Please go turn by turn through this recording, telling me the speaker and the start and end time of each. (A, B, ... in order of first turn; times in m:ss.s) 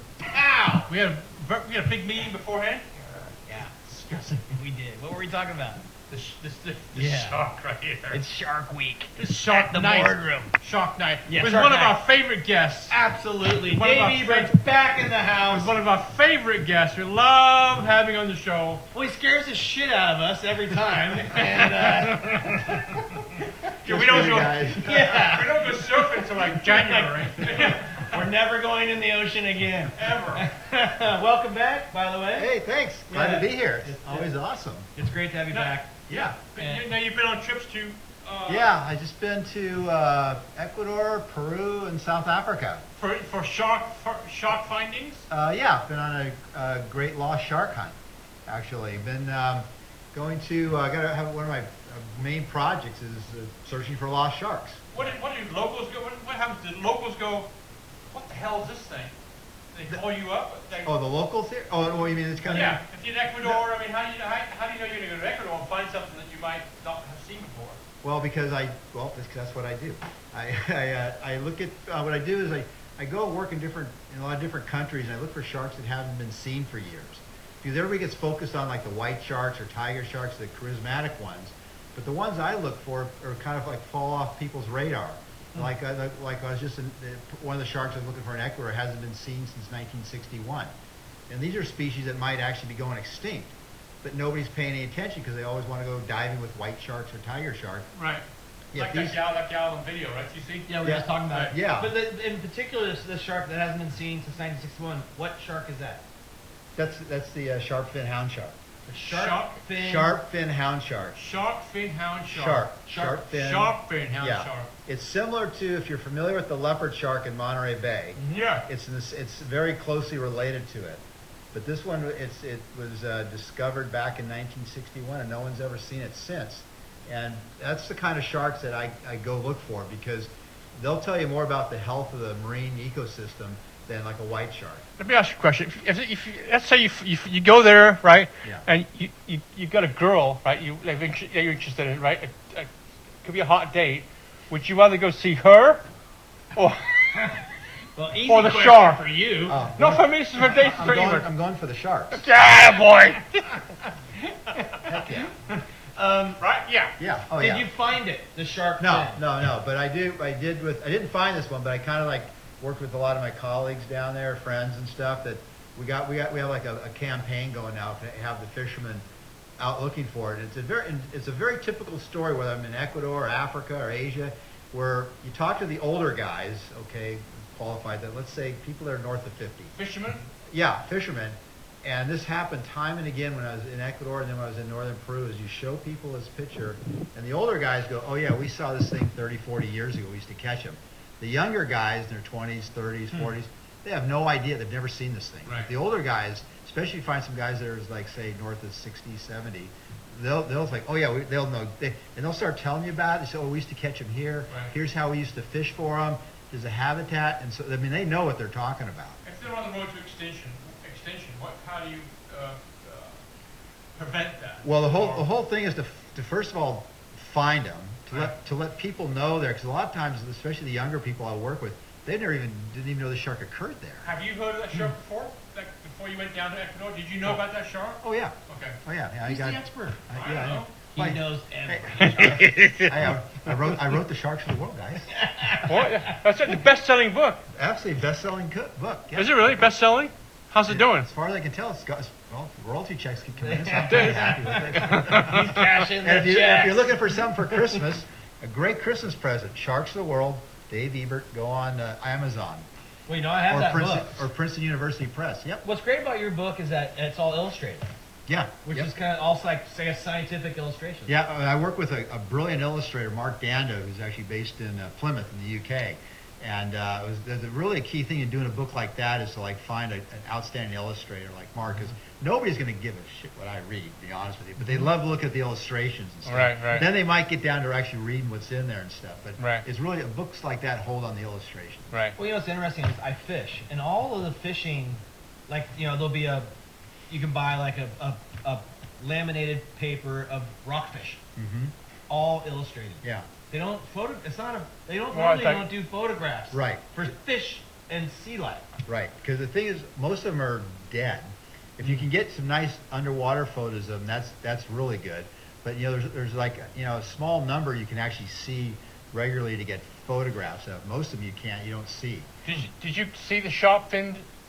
0:00.2-0:00.9 A
0:00.8-0:02.9 B
0:03.1-0:05.8 A
0:04.1-0:04.4 B
0:06.1-0:08.2 B
0:06.9-0:07.4 A
0:08.1-0:10.5 A
0:09.2-0:13.0 B
0:11.3-0:12.0 A
0:12.9-0:15.7 A
0:13.7-0:14.5 B
0:15.5-0:18.8 B
0:18.9-0:23.2 A
0:21.4-0:23.3 B
0:23.8-0:28.2 B
0:23.8-0:25.1 C
0:24.8-0:32.5 A
0:29.9-0:30.4 B
0:32.4-0:34.9 C
0:33.1-0:34.3 A
0:34.9-0:36.9 A
0:35.5-0:38.7 B
0:36.1-0:36.3 C
0:38.4-0:42.8 C
0:43.0-0:45.2 B
0:45.3-0:55.0 C
0:54.9-0:57.5 B
0:58.1-0:59.1 B
0:59.7-1:00.9 B
1:00.8-1:02.8 C
1:02.5-1:07.8 B
1:02.5-1:02.8 A
1:08.0-1:30.7 C
1:31.3-1:37.9 C
1:37.9-1:41.5 B
1:38.7-1:39.2 C
1:40.7-1:46.0 A
1:40.8-1:41.9 C
1:46.8-1:48.6 C
1:48.9-1:50.2 A
1:49.0-1:49.6 B
1:49.8-1:51.2 C
1:51.1-1:52.7 B
1:52.3-2:14.9 C
1:52.8-1:53.2 A
1:53.3-1:54.7 B
1:58.2-1:58.7 B
2:15.0-2:22.7 B
2:23.2-2:25.8 B
2:26.5-2:27.3 B
2:27.1-2:27.4 A
2:28.0-2:29.6 A
2:28.2-2:29.1 B
2:29.5-2:32.3 C
2:29.8-2:31.3 B
2:32.1-2:33.8 B
2:34.8-2:35.3 C
2:36.0-2:36.4 A
2:36.4-2:37.0 B
2:37.0-2:37.7 C
2:37.4-2:39.2 A
2:38.8-2:49.0 C
2:49.6-2:59.7 C
2:59.7-3:00.2 B
3:00.5-3:29.2 C
3:29.2-3:33.2 B
3:33.9-3:35.2 B
3:34.6-3:44.1 C
3:44.0-3:48.8 B
3:48.0-3:55.1 C
3:49.2-3:52.7 A
3:50.2-3:50.7 B
3:52.5-3:52.9 B
3:55.1-3:56.1 A
3:55.6-3:57.4 B
3:57.5-3:59.5 C
3:59.1-4:01.1 B
4:00.7-4:12.7 C
4:03.4-4:07.6 A
4:03.8-4:05.6 B
4:13.1-4:14.1 A
4:13.5-4:15.6 C
4:15.6-4:17.9 A
4:18.3-4:18.9 C
4:18.6-4:21.1 A
4:21.1-4:42.0 C
4:36.2-4:36.9 B
4:39.4-4:39.6 B
4:42.2-4:46.5 A
4:47.1-4:51.2 A
4:51.4-4:51.7 C
4:52.1-4:58.6 A
4:53.0-4:53.3 C
4:55.1-4:55.7 B
4:56.5-4:56.8 C
4:58.9-5:12.3 C
5:12.4-5:14.2 B